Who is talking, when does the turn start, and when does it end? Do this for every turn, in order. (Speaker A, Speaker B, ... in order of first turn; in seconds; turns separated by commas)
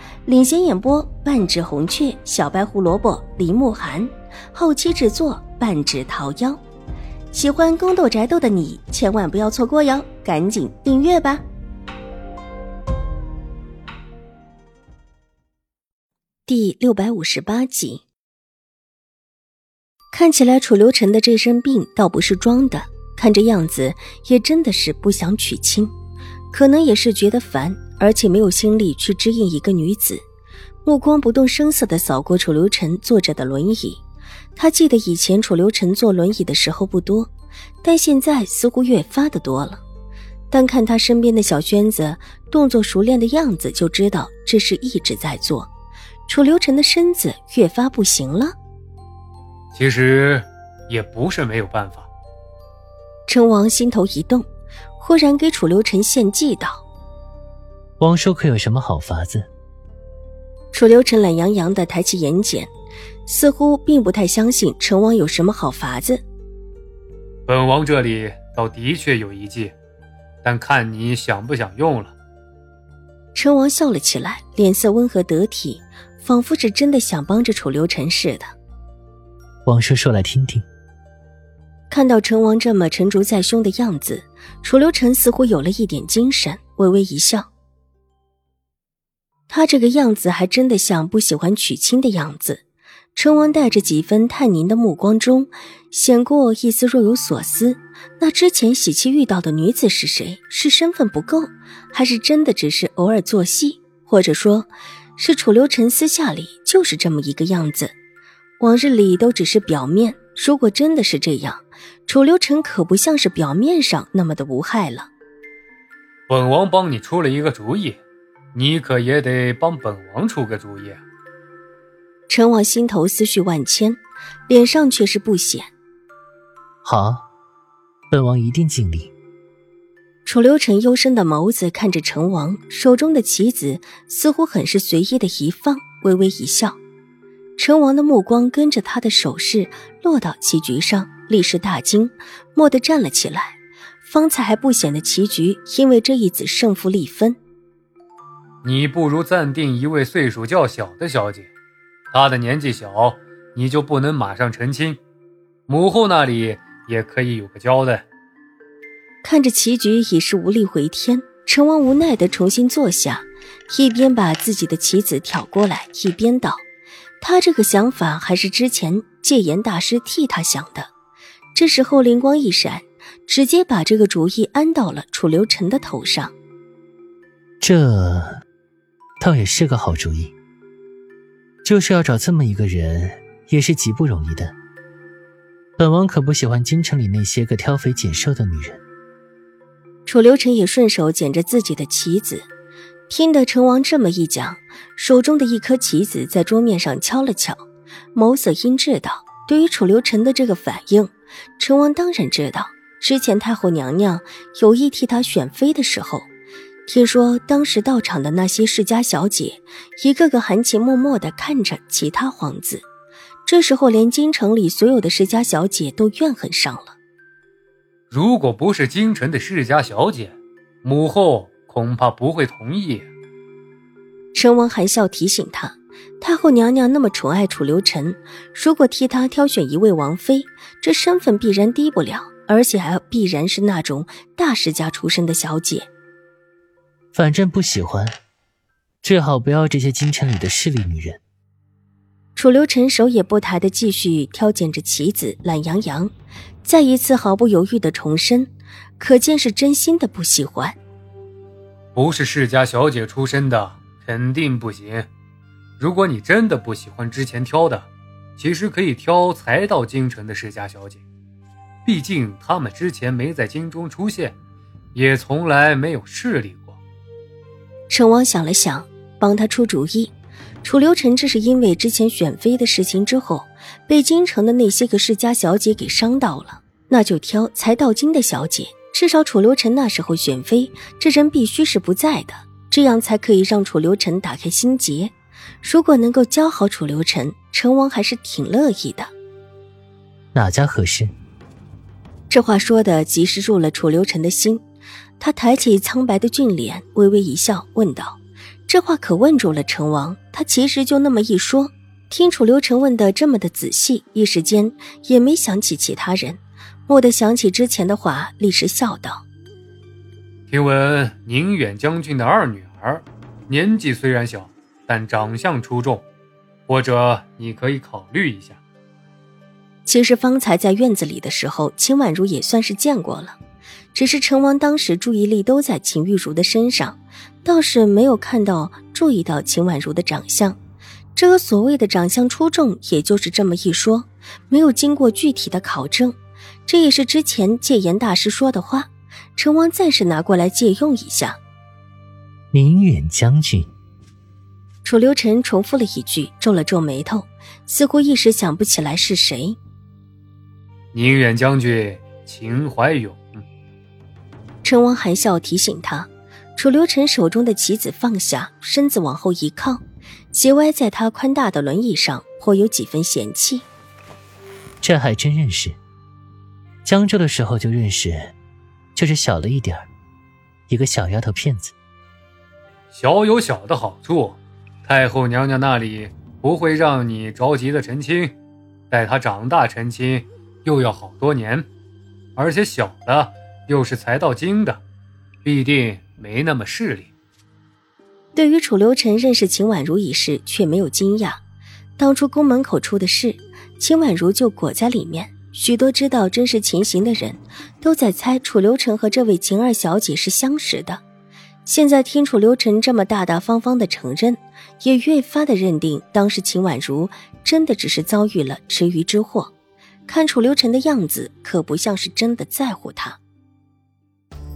Speaker A: 0.3-6.6, Speaker A: 7.3-11.4, Speaker A: 16.5-18.1, Speaker A: 20.1-25.9, Speaker A: 26.5-30.2, Speaker A: 30.9-34.0, Speaker A: 34.6-37.3, Speaker A: 37.8-39.8, Speaker A: 40.5-45.7, Speaker A: 46.3-48.5, Speaker B: 49.7-52.1, Speaker A: 53.3-54.5, Speaker A: 55.0-56.8, Speaker C: 58.0-59.5, Speaker A: 60.7-62.7, Speaker A: 63.3-66.2, Speaker B: 67.5-69.7, Speaker B: 70.4-72.1, Speaker A: 73.3-78.5, Speaker C: 79.7-80.7, Speaker A: 81.9-87.5, Speaker A: 89.5-92.6, Speaker A: 93.2-107.9, Speaker A: 108.6-115.1, Speaker B: 116.3-118.0, Speaker B: 118.5-121.0, Speaker A: 122.3-125.7, Speaker C: 126.8-127.2, Speaker C: 128.1-129.1, Speaker A: 130.2-136.8, Speaker A: 137.6-147.4, Speaker B: 148.6-151.5, Speaker B: 152.1-155.0, Speaker B: 155.7-158.0, Speaker A: 159.2-166.6, Speaker A: 167.2-170.9, Speaker A: 171.6-176.3, Speaker C: 177.6-178.4, Speaker C: 179.2-180.3, Speaker C: 181.6-184.5, Speaker C: 185.8-188.8, Speaker A: 190.1-192.5, Speaker A: 193.1-197.6, Speaker A: 198.2-206.3, Speaker A: 206.9-212.9, Speaker A: 213.5-217.0, Speaker B: 218.1-223.1, Speaker A: 224.3-235.9, Speaker C: 237.1-238.2, Speaker C: 239.0-241.2, Speaker A: 242.4-246.1, Speaker A: 246.6-250.8, Speaker B: 251.9-255.1, Speaker B: 255.8-261.0, Speaker B: 261.9-264.4, Speaker B: 264.9-266.8, Speaker A: 267.9-289.1, Speaker C: 290.3-291.1, Speaker A: 292.3-294.6, Speaker A: 295.2-309.2, Speaker B: 310.5-316.0, Speaker B: 316.7-318.6, Speaker A: 319.9-323.4, Speaker A: 323.9-330.6, Speaker A: 331.2-336.2, Speaker A: 336.7-341.4, Speaker C: 342.5-343.7, Speaker A: 344.8-349.6, Speaker B: 350.9-353.4, Speaker A: 354.6-363.7, Speaker C: 364.8-365.8, Speaker C: 366.8-368.3, Speaker C: 368.9-369.9, Speaker C: 370.7-371.7, Speaker B: 372.9-378.3, Speaker B: 378.9-381.7, Speaker B: 382.4-384.8, Speaker B: 385.4-387.1, Speaker A: 388.4-391.4, Speaker A: 392.0-401.0, Speaker A: 401.7-409.5, Speaker A: 410.1-413.2